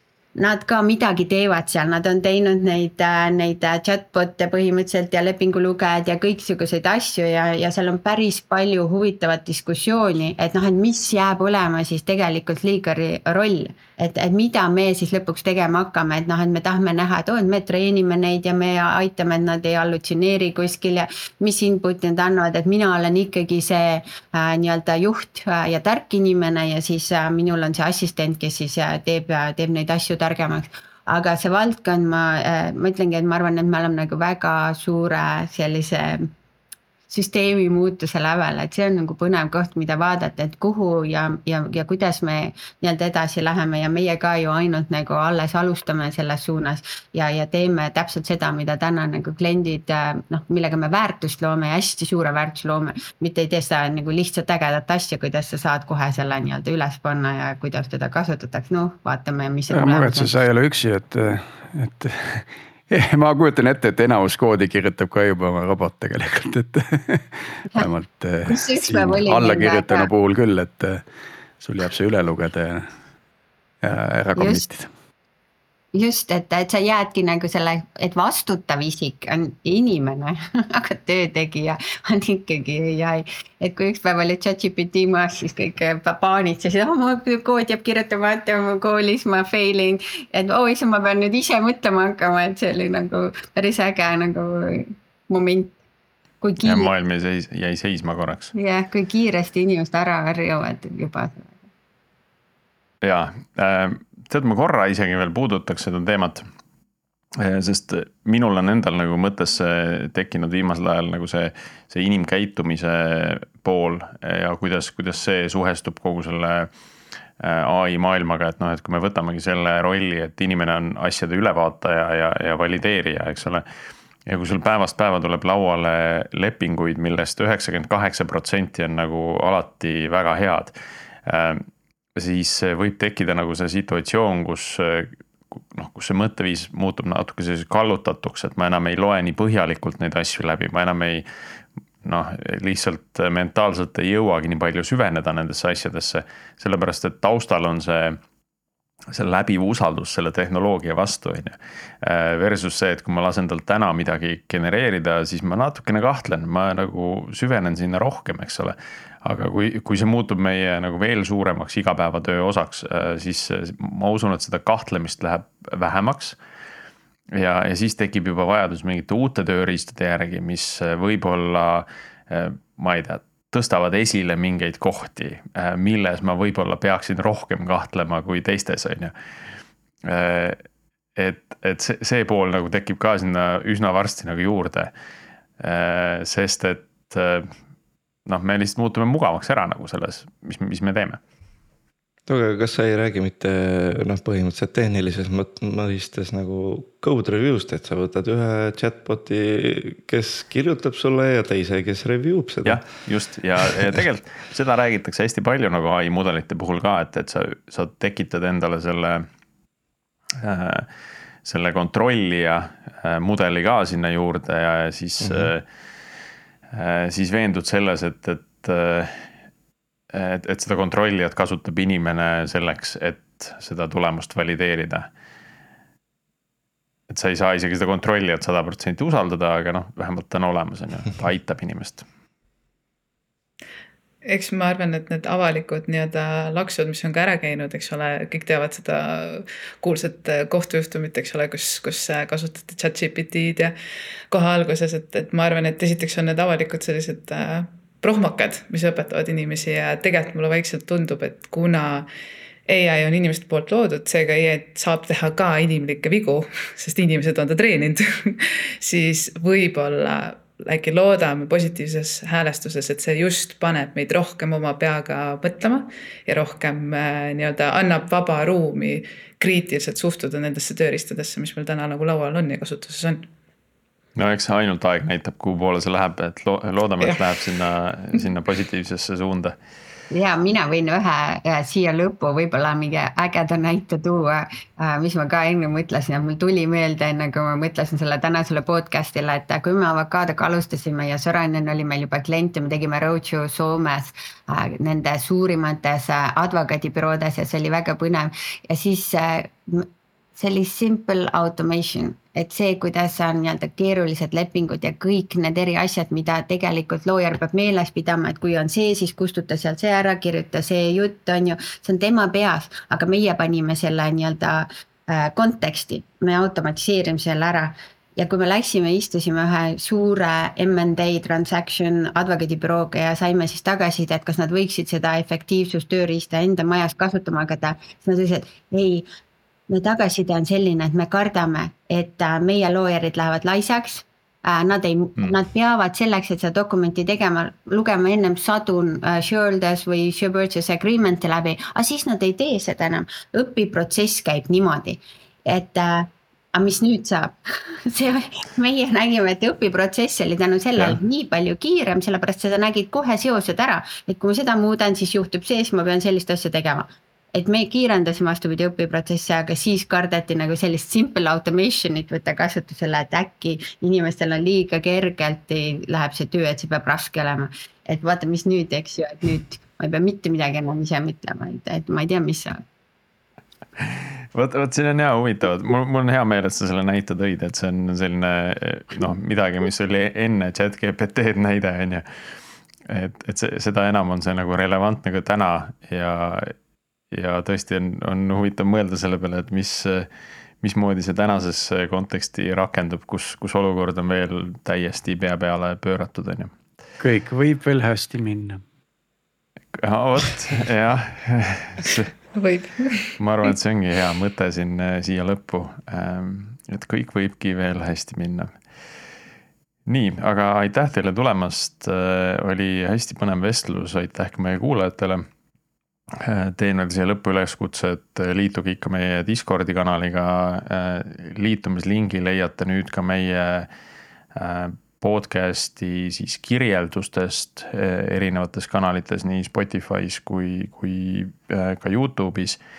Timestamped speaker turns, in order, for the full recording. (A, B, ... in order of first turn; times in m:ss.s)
0:00.4-0:36.3 A
0:37.1-1:00.3 A
0:59.7-1:11.0 B
1:08.5-1:10.1 A
1:11.6-1:12.8 B
1:13.8-1:14.9 B
1:14.4-1:14.7 A
1:15.9-1:35.7 A
1:36.4-1:36.9 A
1:36.6-1:38.5 C
1:38.5-1:41.6 A
1:43.0-1:46.4 C
1:47.4-1:56.7 C
1:57.4-2:03.6 C
2:04.3-2:21.2 C
2:22.0-2:28.2 C
2:29.1-2:46.4 C
2:47.3-2:59.1 C
3:00.0-3:00.6 C
3:01.2-3:04.9 C
3:05.6-3:07.5 C
3:08.2-3:11.2 C
3:12.3-3:22.9 D
3:22.6-3:29.3 C
3:30.4-3:30.9 C
3:31.4-3:35.6 C
3:35.2-3:35.5 D
3:36.7-3:39.3 C
3:40.1-3:45.1 C
3:47.1-3:52.0 C
3:54.2-4:03.7 E
4:04.3-4:12.1 E
4:12.7-4:33.3 E
4:34.2-4:39.6 C
4:40.1-5:29.0 A
5:29.7-5:47.3 A
5:47.8-6:12.6 A
6:13.8-6:22.0 C
6:22.9-6:26.5 C
6:27.1-6:30.1 C
6:30.6-6:36.5 C
6:37.0-6:38.6 B
6:39.8-6:42.1 C
6:42.3-6:43.1 E
6:43.2-6:48.5 C
6:49.8-6:55.2 C
6:56.2-7:03.7 C
7:04.4-7:12.6 C